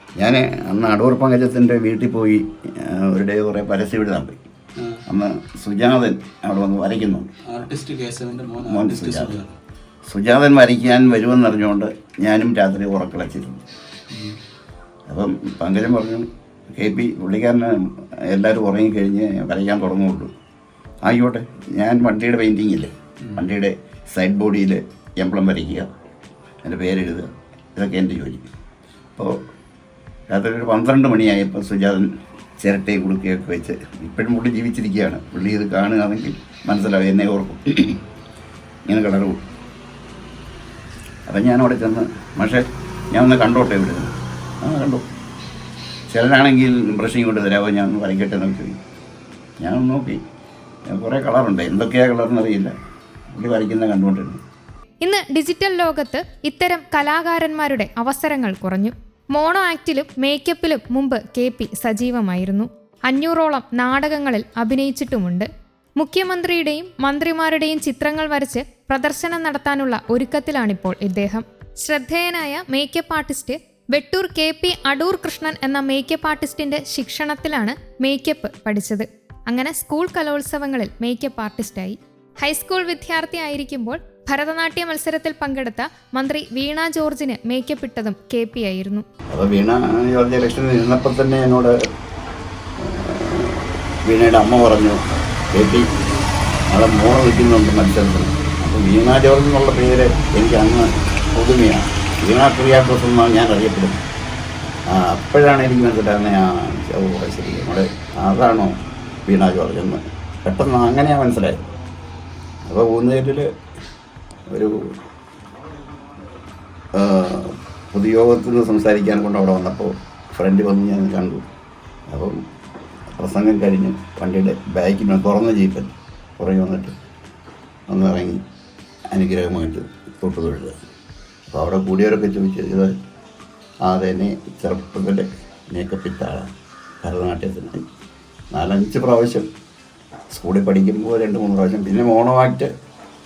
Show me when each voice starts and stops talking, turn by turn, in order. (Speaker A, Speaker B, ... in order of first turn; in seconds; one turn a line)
Speaker A: 0.2-4.4
Speaker B: 4.8-5.0
Speaker A: 5.0-7.3
Speaker B: 7.5-9.6
Speaker A: 8.6-9.4
Speaker A: 10.1-13.6
Speaker B: 14.1-14.4
Speaker A: 15.1-20.3
Speaker A: 21.0-25.9
Speaker A: 26.6-28.5
Speaker A: 30.3-38.0
Speaker A: 38.9-39.4
Speaker A: 41.3-45.1
Speaker A: 46.1-48.8
Speaker A: 49.6-50.2
Speaker A: 50.9-52.8
Speaker A: 53.3-54.4
Speaker C: 55.0-89.0
Speaker A: 89.3-91.8
Speaker A: 92.8-95.0
Speaker A: 95.5-95.9
Speaker A: 96.7-104.0
Speaker A: 104.9-111.7
Speaker A: 112.7-113.5
Speaker A: 114.5-115.0
Speaker A: 116.9-121.5
Speaker A: 122.1-122.4
Speaker A: 123.1-127.0
Speaker A: 127.9-128.4
Speaker A: 129.1-130.8
Speaker A: 131.5-132.9
Speaker A: 133.8-136.5
Speaker A: 137.0-137.9
Speaker A: 138.5-139.5
Speaker A: 140.3-142.7